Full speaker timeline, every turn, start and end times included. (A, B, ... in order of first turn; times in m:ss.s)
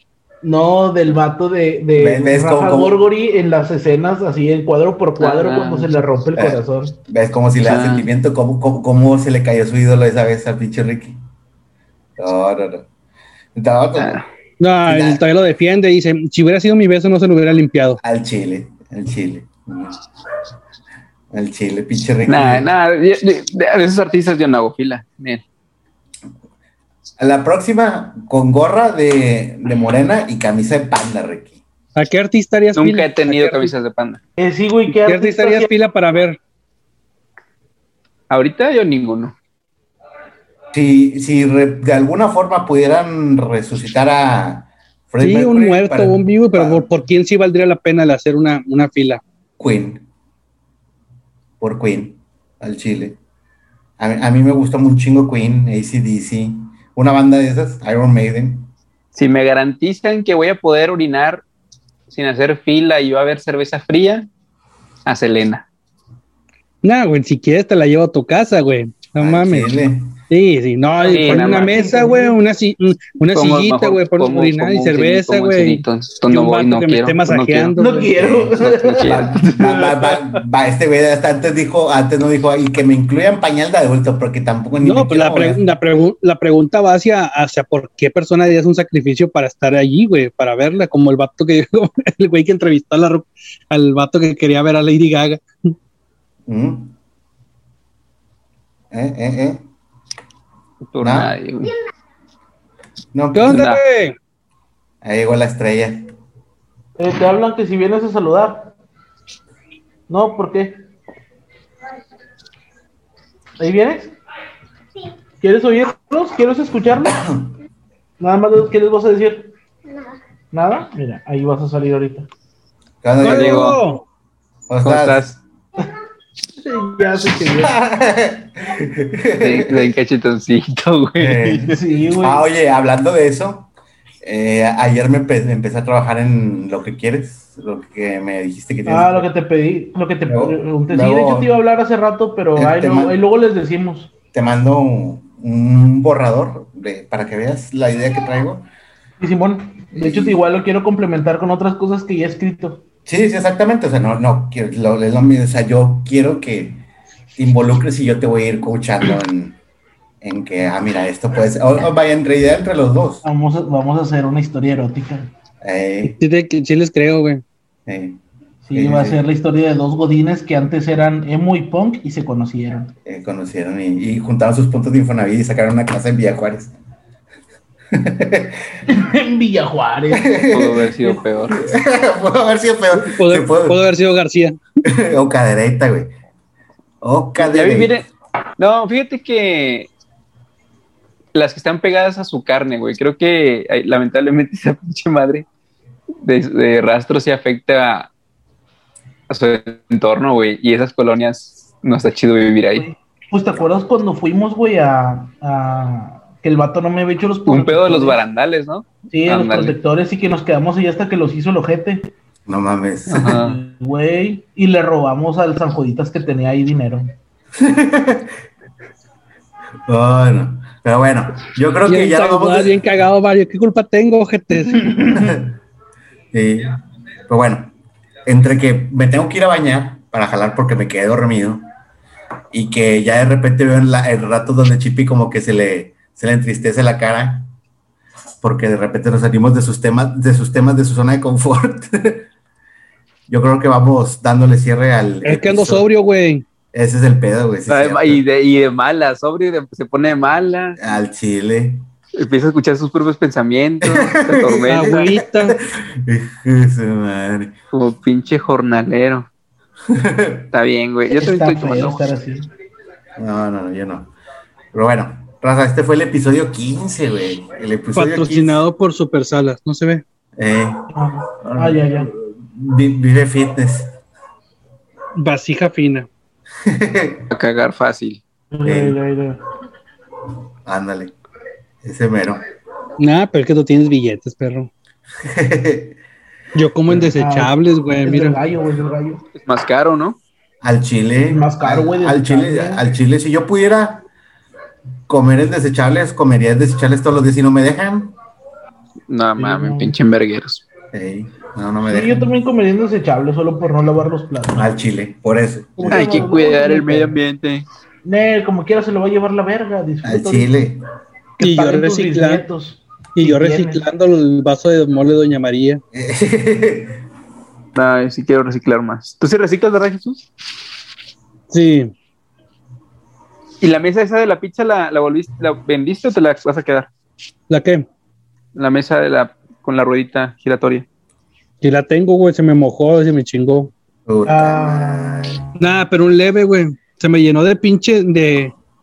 0:00.4-0:07.0 A
0:02.0-0:03.0 B
0:05.2-0:05.9 C
0:06.4-0:11.2 B
0:07.6-0:08.1 C
0:12.2-0:12.9 B
0:13.6-0:14.2 B
0:14.0-0:14.2 C
0:14.6-0:18.0 D
0:14.8-0:15.2 B
0:18.0-0:20.0 B
0:21.3-0:22.7 B
0:22.3-0:25.4 C
0:27.2-0:31.6 B
0:32.0-0:33.7 D
0:32.8-0:34.2 C
0:34.4-0:35.7 A
0:35.0-0:36.4 D
0:38.3-0:39.3 C
0:40.7-0:46.9 B
0:45.2-0:49.2 D
0:49.6-0:50.0 B
0:51.6-0:53.2 B
0:54.0-0:58.7 B
0:59.1-1:01.4 C
1:02.1-1:04.3 C
1:05.1-1:05.7 C
1:06.8-1:09.7 D
1:09.2-1:10.2 B
1:10.3-1:18.1 D
1:11.0-1:11.8 C
1:11.2-1:12.4 A
1:13.3-1:17.8 C
1:17.8-1:19.4 A
1:18.1-1:25.6 B
1:18.6-1:20.4 C
1:24.8-1:35.4 D
1:36.5-1:37.0 B
1:38.9-1:39.6 B
1:40.9-1:41.7 C
1:41.0-1:41.4 B
1:43.1-1:43.7 B
1:43.3-1:44.2 D
1:43.5-1:43.8 C
1:45.0-1:46.1 B
1:47.0-1:48.7 A
1:50.1-1:50.8 A
1:53.6-1:54.2 A
1:55.4-1:57.2 A
1:57.2-1:57.5 B
1:58.2-1:59.5 A
2:00.5-2:02.3 A
2:03.0-2:03.8 B
2:03.2-2:04.0 D
2:03.2-2:03.8 C
2:04.7-2:05.2 B
2:04.8-2:05.4 C
2:06.6-2:07.8 A
2:07.6-2:09.9 B
2:09.4-2:11.7 C
2:11.2-2:13.7 B
2:11.6-2:12.5 A
2:14.2-2:19.3 B
2:18.9-2:24.1 A
2:20.3-2:21.6 B
2:22.6-2:23.1 B
2:24.3-2:28.7 B
2:29.2-2:32.8 A
2:30.0-2:30.4 B
2:33.1-2:36.8 B
2:37.4-2:39.6 B
2:40.2-2:43.2 B
2:43.2-2:45.3 A
2:45.6-2:46.2 B
2:46.0-2:47.4 D
2:47.9-2:48.2 B
2:48.7-2:52.9 A
2:48.7-2:49.2 B
2:53.1-2:56.7 B
2:57.9-2:58.8 B
2:58.9-3:00.4 A
3:00.1-3:03.8 B
3:00.5-3:01.6 C
3:02.9-3:04.6 D
3:04.9-3:06.1 B
3:07.0-3:07.9 B
3:07.4-3:09.9 C
3:11.3-3:15.5 C
3:16.2-3:18.1 C
3:19.3-3:22.9 C
3:22.8-3:28.2 A
3:27.5-3:29.8 C
3:29.1-3:32.1 A
3:32.5-3:33.4 B
3:33.1-3:33.6 C
3:33.4-3:37.1 A
3:37.6-3:38.3 B
3:39.9-3:42.8 B
3:41.9-3:45.4 D
3:45.1-3:45.5 B
3:46.3-3:47.7 B
3:48.3-3:51.7 B
3:52.5-3:57.5 B
3:58.4-4:02.3 B
4:03.3-4:05.9 B
4:05.2-4:06.4 D
4:06.7-4:08.2 B
4:07.7-4:10.8 C
4:10.8-4:11.9 B
4:12.2-4:15.1 C
4:13.8-4:17.5 B
4:14.7-4:15.6 D
4:17.7-4:19.3 C
4:19.9-4:20.5 B
4:20.5-4:22.0 C
4:21.1-4:22.5 A
4:23.2-4:24.1 B
4:24.7-4:28.6 B
4:28.0-4:30.0 D
4:30.4-4:30.9 B
4:30.9-4:32.1 A
4:31.4-4:34.0 B
4:35.2-4:36.1 D
4:36.6-4:37.3 B
4:37.3-4:38.2 C
4:38.5-4:39.4 A
4:38.6-4:39.0 B
4:40.7-4:41.2 B
4:41.8-4:42.4 B
4:43.0-4:44.7 D
4:45.2-4:46.0 B
4:46.6-4:48.4 D
4:46.9-4:47.1 B
4:47.2-4:49.2 A
4:49.4-4:50.2 C
4:50.6-4:54.1 B
4:51.3-4:52.8 A
4:55.1-4:58.1 B
4:59.1-5:00.6 C
4:59.4-5:00.0 A
5:00.9-5:02.3 B
5:01.9-5:04.7 A
5:04.6-5:06.3 B
5:05.8-5:07.2 A
5:05.9-5:07.6 C
5:08.0-5:10.5 A
5:10.0-5:10.8 B
5:11.4-5:13.8 A
5:11.4-5:12.4 D
5:13.2-5:15.8 D
5:15.9-5:17.0 B
5:17.8-5:20.3 C
5:21.5-5:21.9 D
5:23.6-5:26.9 C
5:27.5-5:27.9 D
5:28.6-5:30.9 C
5:31.6-5:33.7 D
5:34.1-5:35.4 B
5:34.3-5:35.6 A
5:35.6-5:38.5 D